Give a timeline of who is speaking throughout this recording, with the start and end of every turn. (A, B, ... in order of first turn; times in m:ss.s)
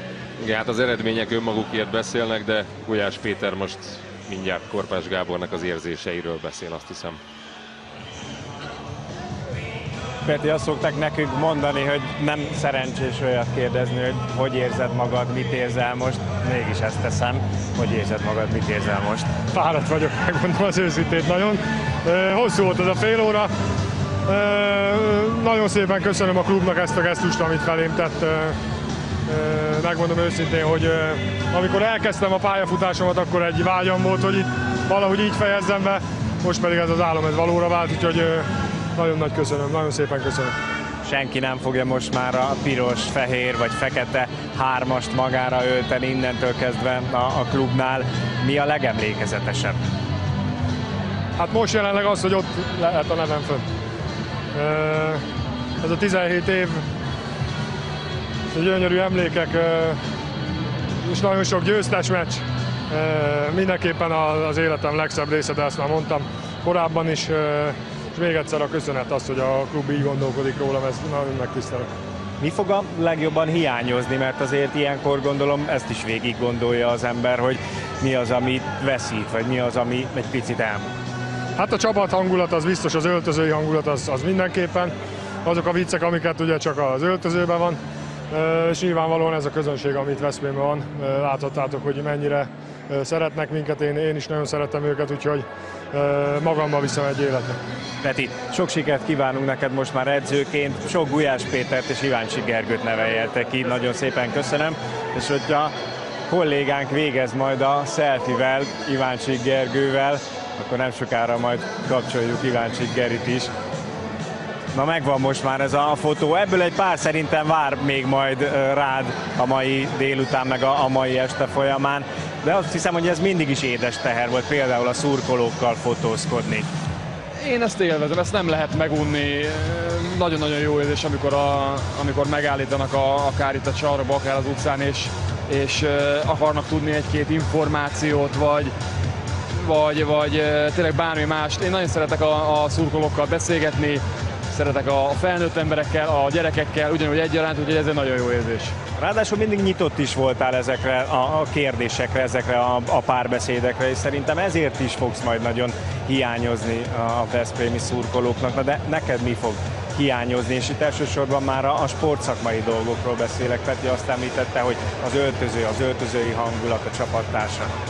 0:00.4-0:07.2 A
0:10.2-0:19.3 B
0:19.5-0:23.5 C
0:24.3-0:28.6 C
0:29.3-0:40.6 C
0:41.0-0:49.8 B
0:51.4-0:53.6 C
0:54.5-0:55.2 C
0:55.8-0:56.8 C
0:58.5-1:00.0 C
1:01.0-1:11.9 C
1:12.4-1:20.9 B
1:21.6-1:24.9 C
1:25.4-1:37.6 C
1:38.0-1:45.7 B
1:46.3-1:53.5 B
1:54.7-2:06.7 B
2:07.4-2:18.7 D
2:19.5-2:28.8 D
2:29.0-2:47.7 B